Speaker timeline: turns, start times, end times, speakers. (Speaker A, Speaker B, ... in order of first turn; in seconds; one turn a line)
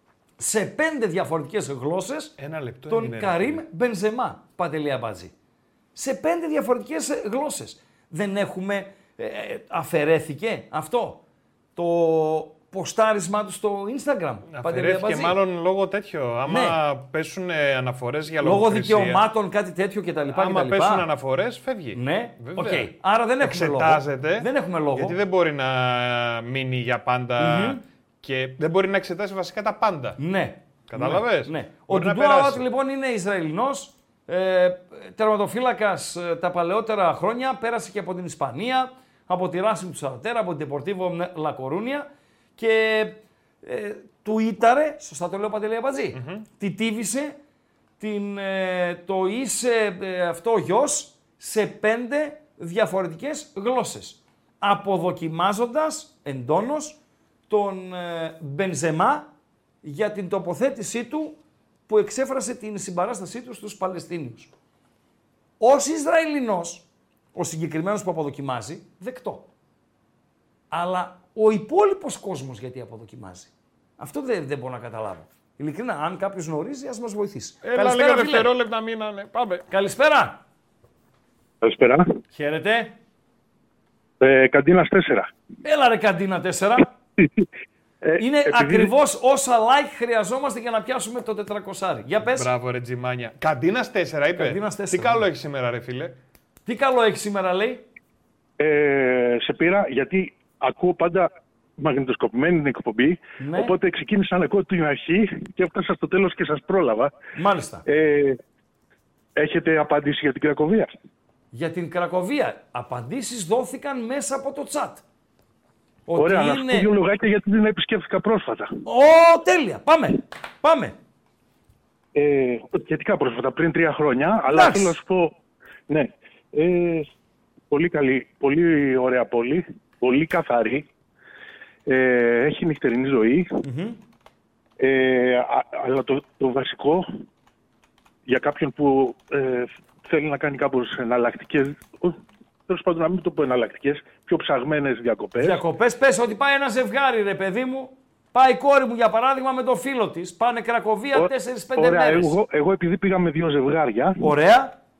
Speaker A: 0.4-2.4
Speaker B: 2.4-3.6
Speaker A: 2.9-5.3
Speaker A: 6.0-11.2
Speaker A: 11.8-15.4
Speaker B: 14.5-19.2
Speaker A: 16.5-16.8
Speaker A: 18.4-21.1
Speaker B: 20.3-30.2
Speaker A: 21.9-25.2
Speaker A: 27.4-27.8
Speaker A: 30.2-47.4
Speaker B: 30.9-32.6
Speaker B: 46.1-46.5
Speaker A: 48.0-57.0
Speaker A: 57.5-59.3
Speaker A: 59.8-64.5
Speaker A: 65.6-69.5
Speaker A: 70.7-78.5
Speaker B: 77.6-79.7
Speaker A: 79.7-80.4
Speaker C: 81.6-82.0
Speaker A: 82.3-83.0
Speaker C: 84.2-85.3
Speaker A: 85.6-86.9
Speaker C: 88.0-88.9
Speaker A: 88.2-92.5
Speaker B: 92.3-96.2
Speaker A: 94.3-95.2
Speaker A: 96.7-97.8
Speaker C: 98.6-107.1
Speaker A: 103.4-103.7
Speaker A: 107.4-107.8
Speaker C: 107.9-108.4
Speaker C: 109.4-110.9
Speaker A: 111.5-115.0
Speaker A: 116.1-116.9
Speaker C: 116.2-118.7
Speaker A: 118.9-121.0
Speaker C: 122.2-125.3
Speaker A: 124.5-125.0
Speaker C: 125.9-127.1
Speaker C: 127.7-130.9
Speaker C: 131.9-133.5
Speaker A: 133.6-134.0
Speaker C: 134.8-137.1
Speaker C: 138.3-145.6
Speaker A: 145.4-152.4
Speaker C: 151.2-154.2
Speaker A: 154.2-154.8